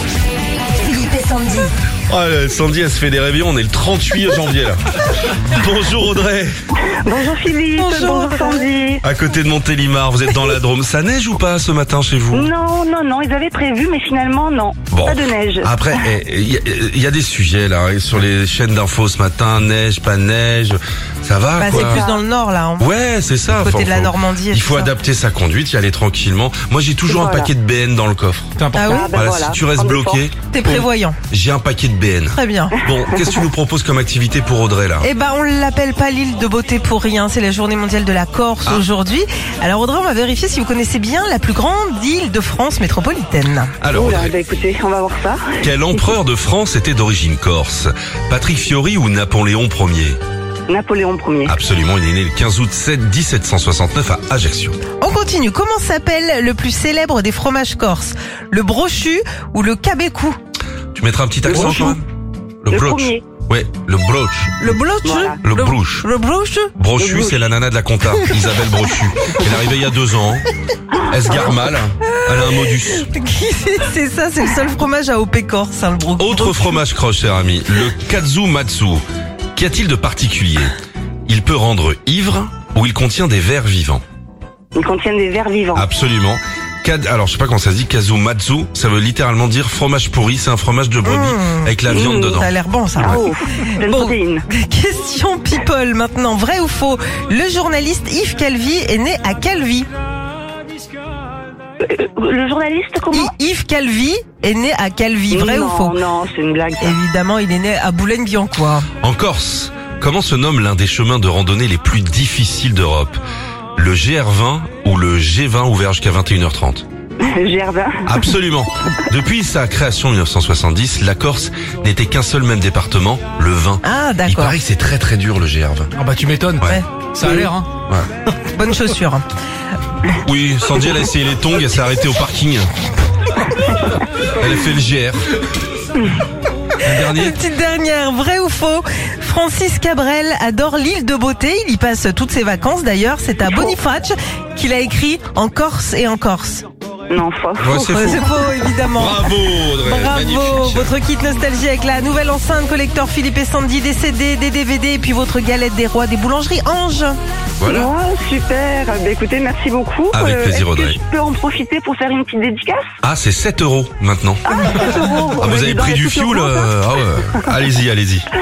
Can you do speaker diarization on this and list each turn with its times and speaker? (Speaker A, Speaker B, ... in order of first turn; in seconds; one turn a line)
Speaker A: 0.9-1.7
Speaker B: 2.1-6.5
Speaker C: 7.0-9.0
Speaker A: 7.8-8.6
Speaker B: 9.0-12.5
Speaker C: 12.3-16.0
Speaker B: 14.9-22.1
Speaker A: 21.6-22.9
Speaker C: 21.7-22.2
Speaker B: 22.8-35.1
Speaker A: 23.5-24.9
Speaker C: 27.1-27.5
Speaker D: 28.6-28.9
Speaker A: 28.7-29.1
Speaker C: 28.8-30.2
Speaker A: 30.5-31.2
Speaker A: 32.3-32.8
Speaker A: 35.0-43.7
Speaker B: 43.8-44.3
Speaker C: 43.9-46.1
Speaker B: 45.6-50.2
Speaker C: 50.7-51.5
Speaker B: 51.5-54.8
Speaker A: 55.0-60.4
Speaker B: 60.9-62.0
Speaker C: 61.5-61.8
Speaker A: 61.7-62.0
Speaker B: 62.6-64.6
Speaker C: 62.7-63.2
Speaker A: 64.6-66.7
Speaker C: 65.0-65.4
Speaker B: 65.4-66.1
Speaker B: 66.8-73.1
Speaker C: 67.0-67.4
Speaker A: 68.1-68.4
Speaker A: 73.1-76.8
Speaker B: 76.2-79.0
Speaker B: 79.5-80.7
Speaker B: 81.2-84.0
Speaker C: 84.7-85.8
Speaker B: 85.7-92.5
Speaker A: 91.0-99.9
Speaker C: 91.9-92.4
Speaker C: 93.0-94.5
Speaker C: 101.8-103.3
Speaker A: 103.1-106.0
Speaker C: 105.3-107.0
Speaker A: 106.8-108.9
Speaker B: 109.0-113.2
Speaker B: 113.8-116.8
Speaker C: 117.2-118.2
Speaker B: 118.0-125.9
Speaker A: 123.8-124.6
Speaker D: 126.0-127.7
Speaker B: 126.6-128.1
Speaker A: 128.5-129.2
Speaker B: 130.1-132.7
Speaker B: 134.2-135.3
Speaker B: 136.8-137.4
Speaker A: 137.0-146.6
Speaker C: 147.1-147.7
Speaker B: 147.6-150.9
Speaker A: 147.7-157.2
Speaker B: 157.6-157.9
Speaker C: 157.7-162.9
Speaker B: 160.1-161.0
Speaker B: 163.0-164.4
Speaker C: 164.5-167.4
Speaker B: 165.4-168.3